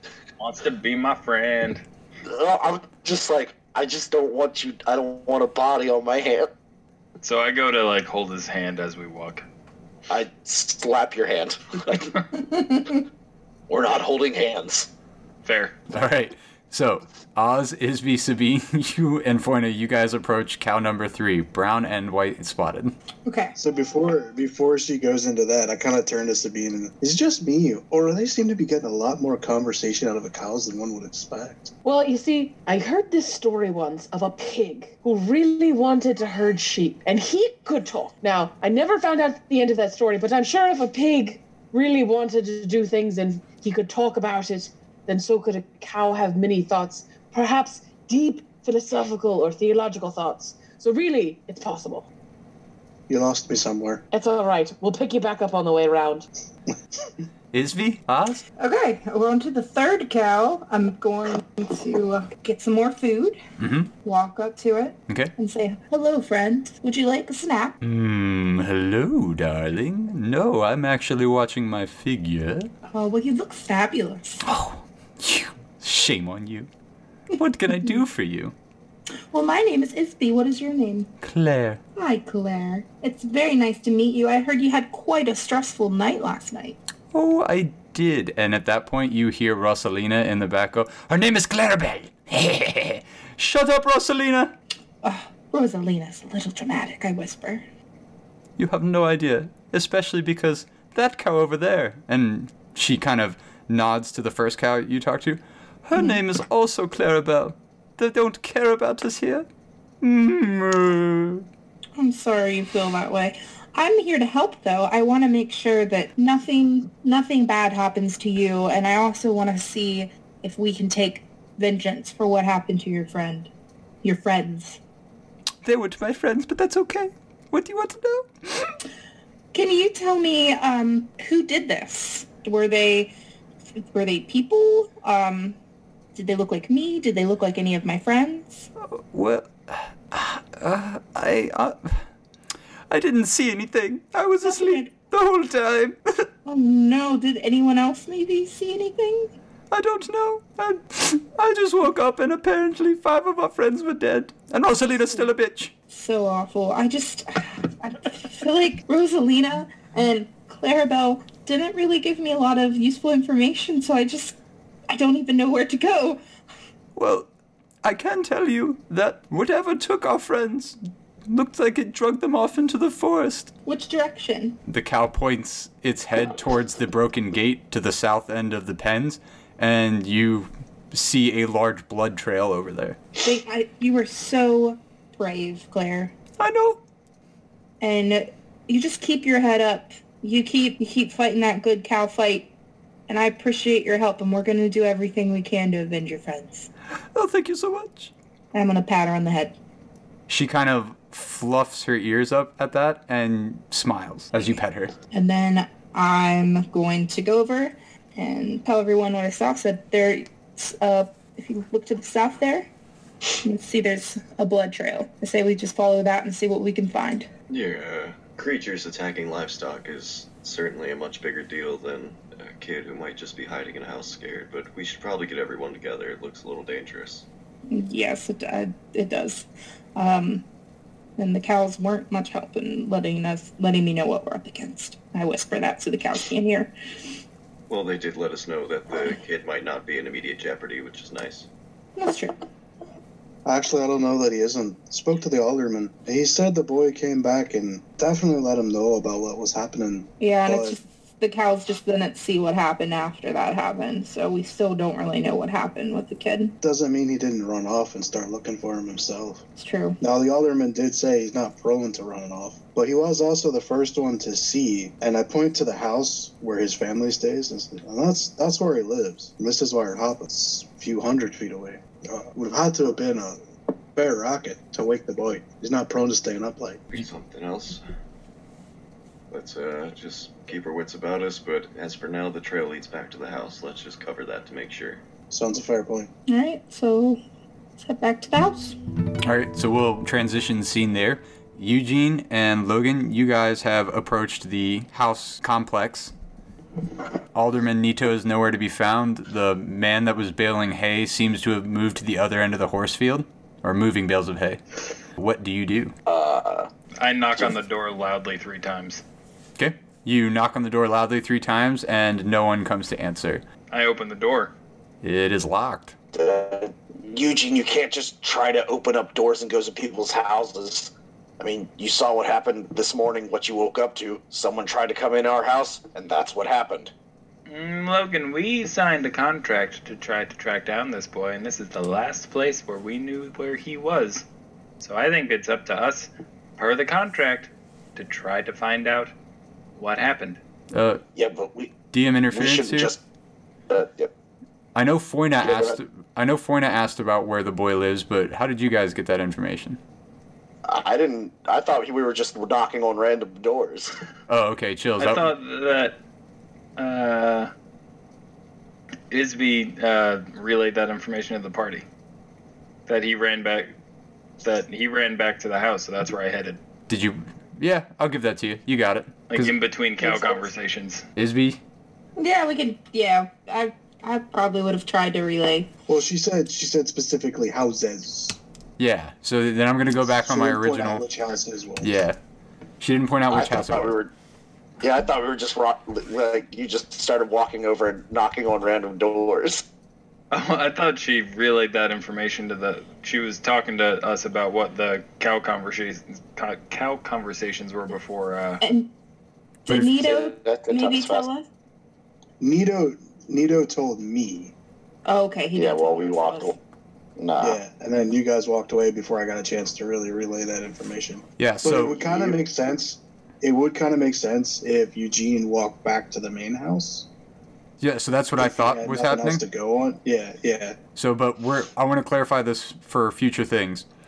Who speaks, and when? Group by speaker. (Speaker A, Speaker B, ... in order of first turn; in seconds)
Speaker A: 0.4-1.8, 7.2-9.4, 15.4-15.8, 307.0-309.0, 313.7-314.5, 327.5-334.2, 334.8-339.1, 339.8-340.4, 355.0-356.0, 356.8-357.5, 359.1-361.9, 362.9-363.7, 364.4-366.6, 369.3-371.1, 390.3-398.6
Speaker B: 2.2-6.5, 10.1-12.1, 13.7-14.9, 306.1-306.7, 316.1-326.9, 341.1-341.8, 342.3-343.0, 343.7-344.1, 345.4-345.8, 350.7-353.9, 383.3-384.1, 384.8-389.6, 399.7-401.3, 405.6-406.6, 407.2-407.6, 412.0-412.4
Speaker C: 12.5-13.0, 23.2-23.5, 58.6-63.4, 64.0-67.8, 72.9-74.4, 79.3-81.1, 82.0-86.8, 95.0-97.6, 112.0-123.5, 124.0-124.8, 129.5-133.1, 133.8-135.6, 136.1-138.7, 144.4-144.9, 146.4-149.3, 155.9-164.4, 164.9-166.2, 173.7-174.6, 183.2-186.1, 187.8-192.5, 193.1-196.7, 198.5-199.6, 205.1-212.7, 213.4-217.3, 227.7-230.4, 231.2-236.7, 242.0-242.3, 250.2-256.6, 259.6-260.0, 286.3-287.2, 287.8-288.8, 372.2-375.7, 398.6-398.9, 399.7-401.5, 405.1-406.6
Speaker D: 15.9-22.9, 57.5-58.5, 63.6-63.9, 67.8-72.7, 74.4-76.7, 77.4-78.5, 81.2-81.8, 87.1-94.5, 98.6-109.5, 110.0-111.5, 125.6-128.7, 138.8-142.0, 142.9-146.3, 149.7-155.7, 167.0-167.3, 167.8-173.5, 174.7-183.0, 186.4-186.8, 197.2-198.1, 200.3-204.9, 289.2-296.1, 297.3-304.6, 305.2-305.9, 309.6-313.4, 315.0-315.9, 340.7-341.0, 341.9-342.9, 344.8-349.8, 354.3-355.3, 366.9-369.5, 371.2-371.6, 378.8-381.0, 381.8-382.2, 382.8-384.0, 411.4-412.0, 417.8-419.4, 421.0-423.9
Speaker E: 23.6-31.7, 53.1-54.0, 243.4-250.8, 256.6-259.4, 260.0-273.4, 273.9-276.9, 285.3-286.1, 375.9-378.4, 380.1-381.9, 402.4-404.5, 407.4-417.1, 418.4-420.8
Speaker F: 31.8-52.1, 54.1-56.3
Speaker G: 217.5-227.3, 237.7-241.5, 276.9-277.8, 279.3-285.0